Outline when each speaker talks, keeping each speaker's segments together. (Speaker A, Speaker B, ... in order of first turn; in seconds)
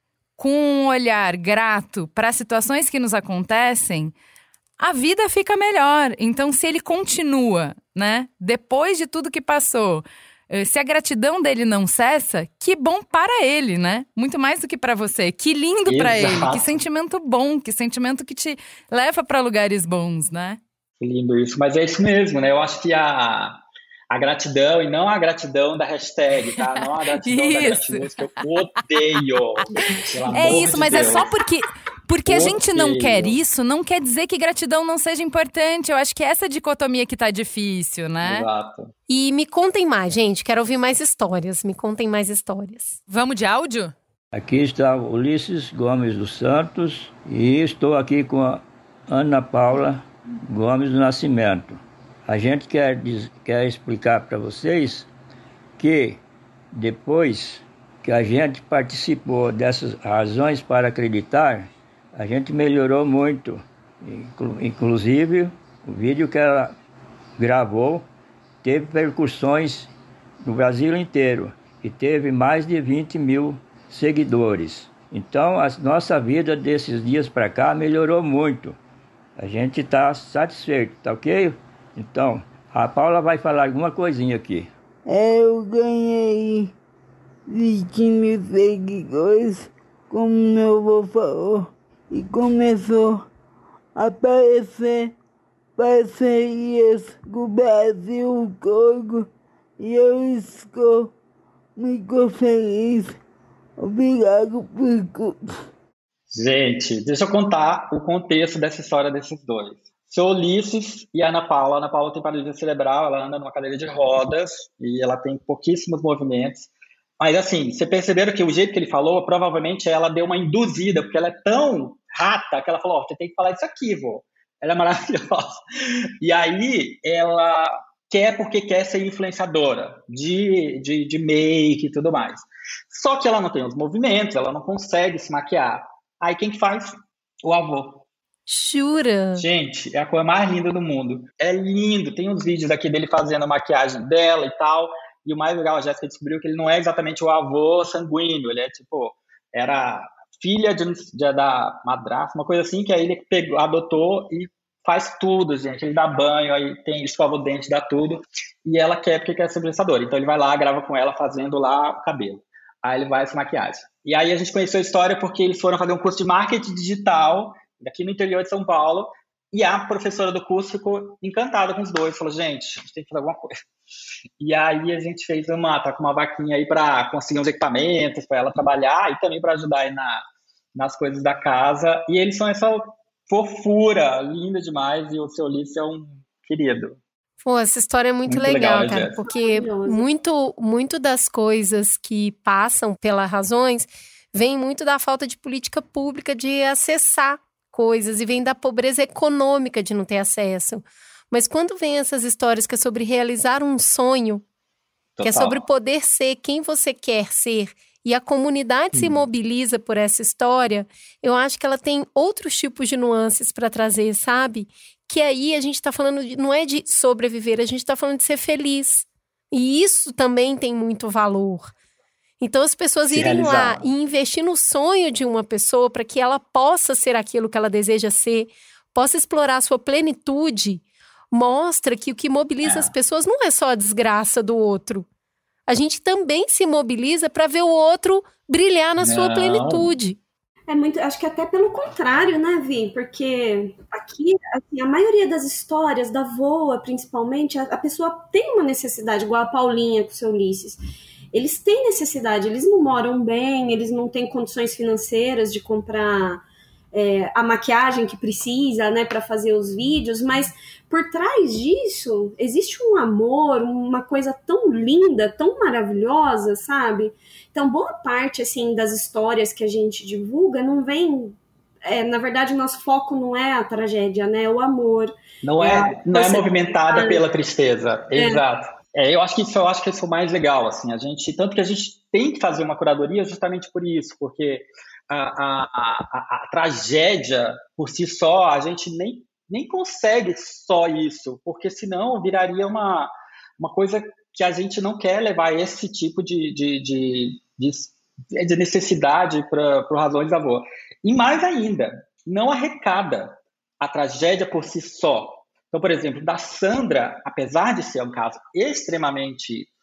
Speaker A: 0.4-4.1, 4.8-20.6, 26.6-28.1, 29.7-38.5, 43.1-43.9
Speaker B: 15.9-16.8, 21.0-23.6, 24.1-31.3, 32.2-33.4, 38.2-38.9, 106.3-116.7, 117.2-125.6, 126.2-138.0, 139.4-173.5, 174.4-180.2, 180.7-187.0, 188.3-189.2, 205.2-205.6, 208.9-209.2, 223.1-223.8, 232.6-232.9, 239.0-239.9, 275.4-309.7
Speaker C: 39.1-43.0, 138.5-139.4, 187.4-204.4, 205.2-221.7, 222.4-235.1, 235.7-240.2
Speaker D: 44.3-55.1, 55.8-56.2, 56.7-66.7, 67.4-68.0, 68.6-69.9, 70.4-78.8, 79.4-84.7
Speaker E: 85.1-86.7, 87.5-93.3, 94.0-95.1, 95.8-101.1, 101.8-103.2, 103.8-105.4
Speaker F: 189.2-190.1, 240.7-250.8, 251.3-277.2, 278.1-278.4